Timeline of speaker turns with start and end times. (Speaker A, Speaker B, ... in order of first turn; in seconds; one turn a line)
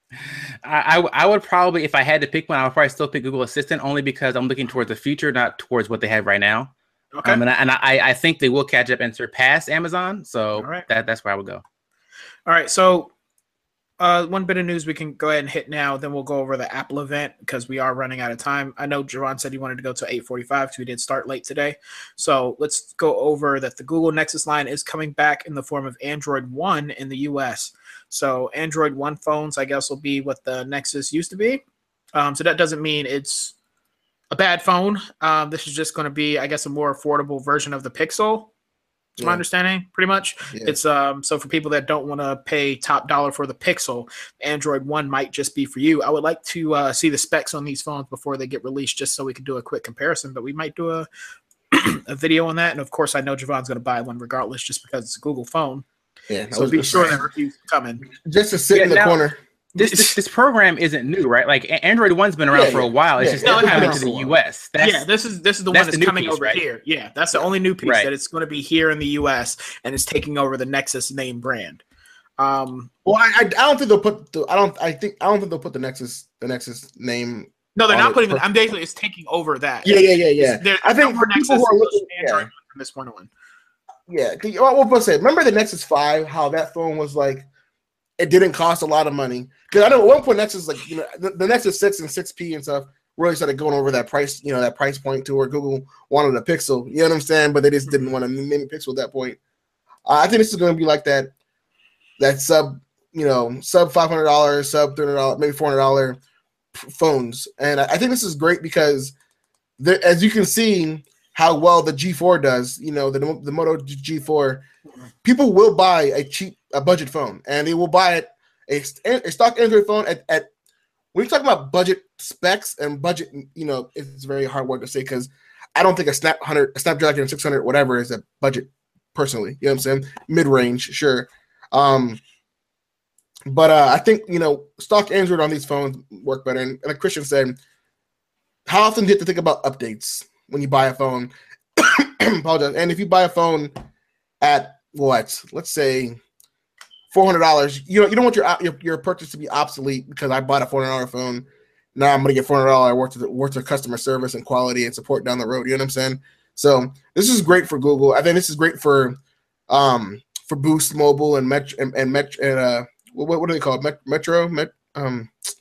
Speaker A: 0.6-6.7
Speaker B: 7.2-7.4
Speaker A: 7.2-11.6
Speaker B: 10.6-10.9
Speaker B: 12.5-13.1
Speaker B: 14.0-31.6
Speaker B: 32.1-33.5
Speaker B: 34.3-38.5
Speaker C: 39.2-39.4
Speaker B: 39.2-51.1
Speaker C: 40.5-40.8
Speaker B: 51.7-55.9
Speaker C: 56.3-57.2
Speaker B: 56.5-58.0
Speaker C: 58.2-59.4
Speaker A: 58.7-59.2
Speaker B: 59.8-60.1
Speaker A: 59.8-65.1
Speaker C: 62.5-64.4
Speaker B: 63.4-64.0
Speaker B: 64.8-71.8
Speaker A: 65.7-66.6
Speaker A: 67.8-68.1
Speaker B: 72.4-72.9
Speaker C: 73.0-78.5
Speaker B: 77.8-83.3
Speaker C: 79.8-82.5
Speaker C: 84.1-87.5
Speaker C: 88.2-99.4
Speaker B: 97.9-98.1
Speaker C: 100.1-101.3
Speaker C: 102.2-106.2
Speaker C: 106.7-109.1
Speaker C: 109.8-114.6
Speaker C: 115.2-120.5
Speaker C: 121.1-132.2
Speaker C: 133.5-137.6
Speaker C: 138.7-143.7
Speaker C: 144.4-146.2
Speaker C: 147.1-165.3